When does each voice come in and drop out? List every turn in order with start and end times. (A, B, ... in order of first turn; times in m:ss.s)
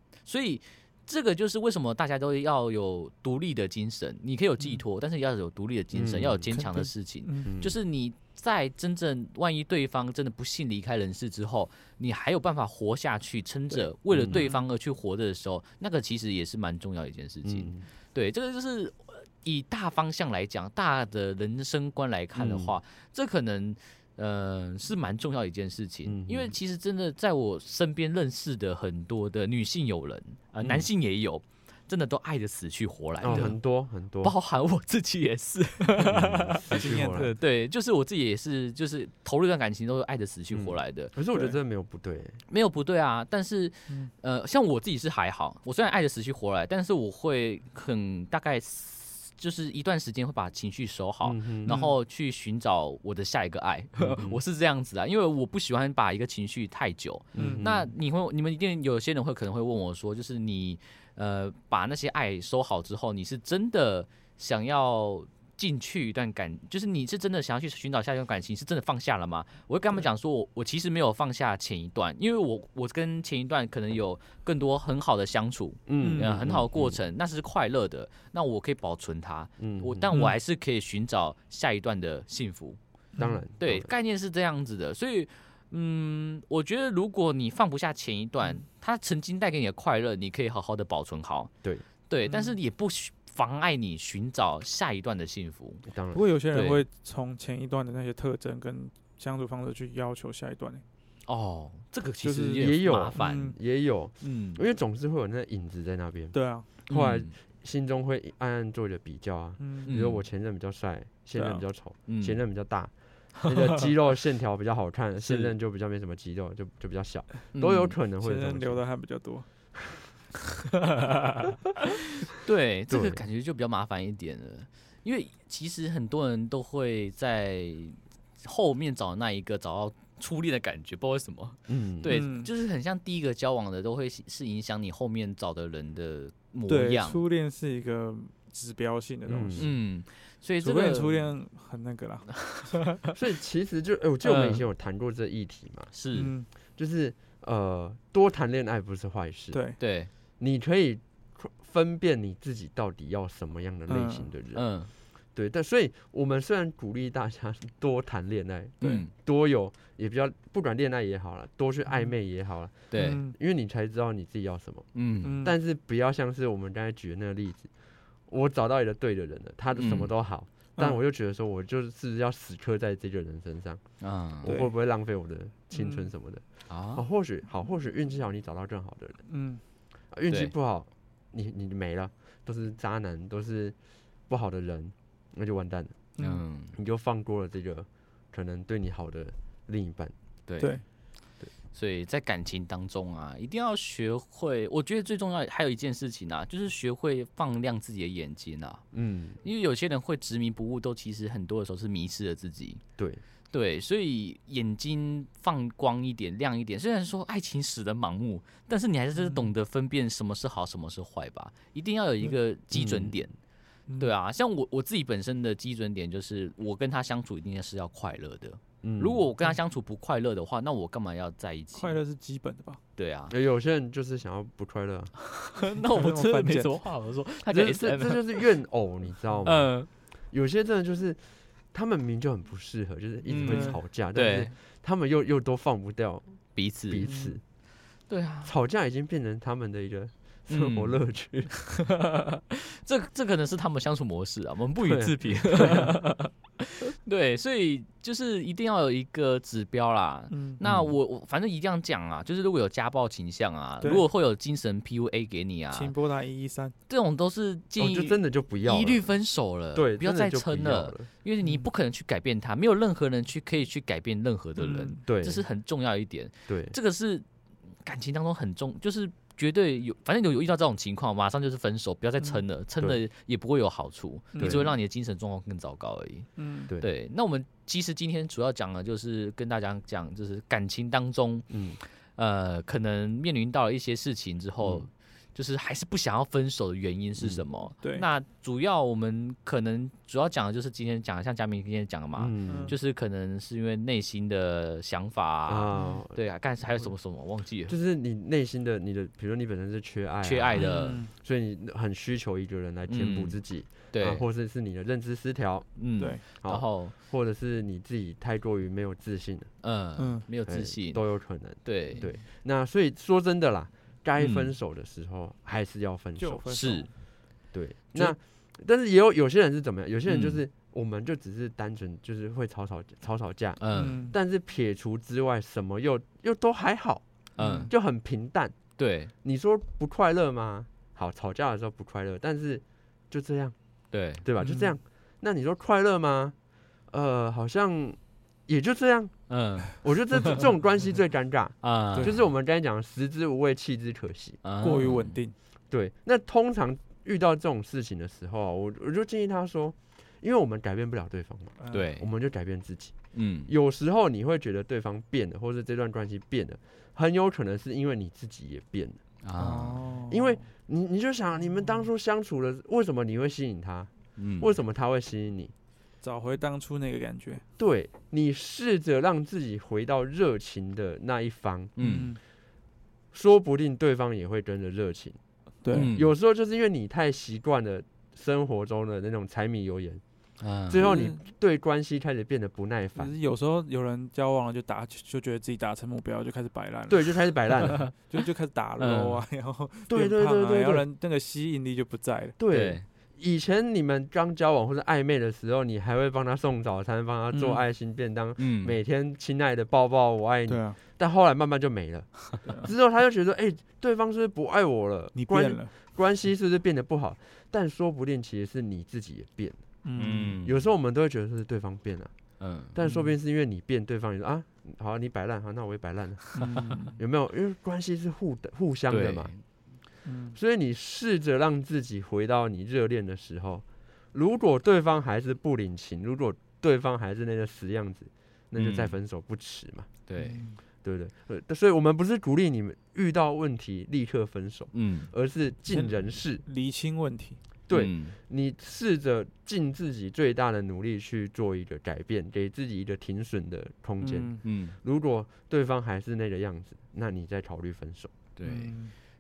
0:00.2-0:33.6 A
0:05.9-0:06.5 B
0:06.5-0:07.5 C
0:07.4-0:07.8 B
0:13.7-0:14.7 C
0:14.1-0:14.5 B
0:17.4-0:17.9 B
0:22.4-0:22.8 B
0:26.1-0:26.6 B
0:30.6-0:30.9 B
0:33.2-0:34.3 B
0:34.2-0:41.2 A
0:36.1-0:37.3 B
0:36.8-0:37.3 C
0:40.5-0:42.4 B
0:42.5-1:22.8 A
0:51.2-0:51.8 B
0:51.6-0:52.0 C
0:54.0-0:54.4 B
0:57.3-0:57.9 B
0:57.4-0:57.7 C
1:15.9-1:17.0 B
1:16.0-1:16.4 C
1:19.6-1:20.1 B
1:20.1-1:20.4 C
1:23.1-1:23.4 C
1:23.2-1:23.9 B
1:23.6-1:31.5 A
1:32.1-1:35.8 A
1:32.3-1:32.5 C
1:35.9-1:36.2 B
1:36.1-1:40.8 C
1:36.5-1:36.8 A
1:41.3-1:43.5 A
1:42.2-1:42.7 C
1:42.6-1:58.8 B
1:43.2-1:43.6 C
1:44.2-1:44.6 A
1:46.3-1:46.7 C
1:46.9-1:47.3 A
1:49.6-1:50.0 C
1:49.9-1:50.2 A
1:51.4-1:51.6 C
1:52.1-1:52.4 A
1:55.2-1:55.5 A
1:57.5-1:58.0 A
1:58.2-1:59.5 C
2:00.9-2:17.2 A
2:02.9-2:03.2 B
2:11.7-2:12.2 B
2:12.1-2:12.5 C
2:16.7-2:19.7 C
2:19.3-2:19.7 B
2:19.6-2:21.3 A
2:20.6-2:22.9 C
2:23.1-2:25.9 B
2:24.2-2:24.6 A
2:25.9-2:26.3 A
2:26.1-2:26.5 C
2:26.8-2:29.6 B
2:29.5-2:29.8 C
2:29.8-2:30.1 A
2:30.4-2:34.6 B
2:33.9-2:34.3 C
2:34.5-2:34.9 A
2:35.4-2:44.9 B
2:38.8-2:39.1 A
2:41.9-2:42.1 C
2:42.9-2:43.2 A
2:43.0-2:43.4 C
2:45.0-2:45.4 A
2:45.2-2:45.6 C
2:45.4-2:47.7 B
2:48.3-2:53.8 B
2:49.7-2:50.1 A
2:54.0-2:54.6 A
2:54.4-2:59.2 B
2:54.5-2:54.7 C
2:55.7-2:56.1 C
2:56.7-2:57.0 A
2:59.3-2:59.6 C
3:00.1-3:03.8 B
3:04.3-3:06.0 B
3:06.2-3:06.4 C
3:06.2-3:06.8 A
3:06.7-3:10.1 B
3:10.5-3:10.8 A
3:11.7-3:18.8 A
3:18.9-3:19.4 B
3:19.4-3:22.8 A
3:23.0-3:23.2 B
3:23.5-3:33.3 A
3:29.1-3:29.5 C
3:32.7-3:33.2 B
3:33.9-3:34.1 C
3:34.0-3:42.0 A
3:38.8-3:39.3 B
3:41.7-3:42.8 C
3:43.0-3:43.4 A
3:43.3-3:45.1 B
3:45.3-3:48.5 A
3:45.8-3:46.8 C
3:47.5-3:49.7 B
3:49.4-3:49.9 A
3:50.3-3:51.2 B
3:51.7-3:56.2 B
3:53.3-3:54.5 A
3:53.4-3:53.8 C
3:56.6-3:57.1 A
3:56.9-3:57.4 B
3:57.0-3:57.4 C
3:58.1-3:58.5 A
3:58.4-4:01.5 B
4:00.5-4:01.0 A
4:01.5-4:15.9 A
4:04.8-4:05.8 B
4:10.3-4:10.6 C
4:10.6-4:10.9 B
4:13.8-4:14.0 C
4:15.7-4:16.8 C
4:16.9-4:27.3 A
4:17.8-4:19.1 B
4:19.8-4:21.1 B
4:21.4-4:21.7 C
4:24.6-4:25.0 C
4:25.1-4:25.4 B
4:26.5-4:26.8 B
4:27.8-4:57.8 A
4:34.4-4:34.7 C
4:34.4-4:34.7 B
4:36.4-4:36.7 C
4:41.5-4:41.8 B
4:44.6-4:44.9 B
4:47.2-4:47.4 B
4:47.8-4:48.1 C
4:52.2-4:52.8 B
4:52.5-4:52.8 C
4:55.5-4:56.2 B
4:55.7-4:56.0 C
4:57.7-5:09.5 B
5:00.2-5:01.0 A
5:00.6-5:01.1 C
5:02.9-5:04.2 A
5:05.8-5:07.0 A
5:09.6-5:11.0 A
5:10.0-5:10.2 C
5:10.5-5:16.6 B
5:11.6-5:12.0 A
5:11.9-5:12.2 C
5:14.2-5:14.5 A
5:16.2-5:16.9 C
5:16.5-5:16.9 A
5:17.5-5:27.0 B
5:20.1-5:20.4 A
5:23.6-5:24.0 A
5:23.7-5:24.2 C
5:27.4-5:27.7 A
5:27.4-5:27.7 C
5:27.7-5:28.6 B
5:28.8-5:29.1 A
5:29.2-5:33.6 B
5:33.9-5:34.2 A
5:34.2-5:36.4 B
5:34.4-5:34.8 C
5:36.9-5:39.1 B
5:39.3-5:40.4 A
5:39.8-5:44.4 B
5:41.6-5:42.2 A
5:42.0-5:42.2 C
5:44.4-5:45.2 A
5:44.6-5:45.4 C
5:45.7-5:53.0 B
5:51.6-5:51.9 C
5:51.7-5:52.1 A
5:53.1-5:53.5 A
5:53.5-5:59.0 B
5:59.2-5:59.9 A
5:59.4-6:00.4 C
6:00.1-6:05.5 B
6:04.2-6:04.5 A
6:06.0-6:07.4 C
6:07.6-6:11.7 B
6:11.8-6:12.2 A
6:11.8-6:12.2 C
6:13.1-6:15.2 B
6:15.6-6:15.9 C
6:15.7-6:16.1 A
6:15.9-6:20.0 B
6:20.4-6:20.9 A
6:20.7-6:23.1 B
6:20.8-6:21.2 C
6:23.0-6:32.4 C
6:26.9-6:27.8 B
6:28.8-6:29.2 A
6:29.9-6:30.8 B
6:32.4-6:49.6 B
6:32.5-6:32.8 A
6:37.3-6:37.6 C
6:38.4-6:38.8 A
6:40.5-6:40.8 C
6:42.4-6:42.7 C
6:45.2-6:45.7 C
6:49.8-6:50.4 C
6:50.0-6:50.6 A
6:50.4-6:52.1 B
6:52.4-6:52.7 A
6:52.7-6:59.3 B
6:52.8-6:53.2 C
6:56.4-6:57.0 C
6:58.9-6:59.4 A
7:00.0-7:00.4 C
7:00.4-7:09.9 B
7:08.6-7:09.0 A
7:10.1-7:10.4 A
7:10.2-7:10.6 C
7:10.8-7:16.4 B
7:14.7-7:15.1 A
7:15.7-7:17.4 C
7:17.7-7:28.1 B
7:17.7-7:18.2 A
7:24.0-7:24.4 C
7:24.4-7:24.8 A
7:28.4-7:28.8 A
7:28.4-7:28.9 C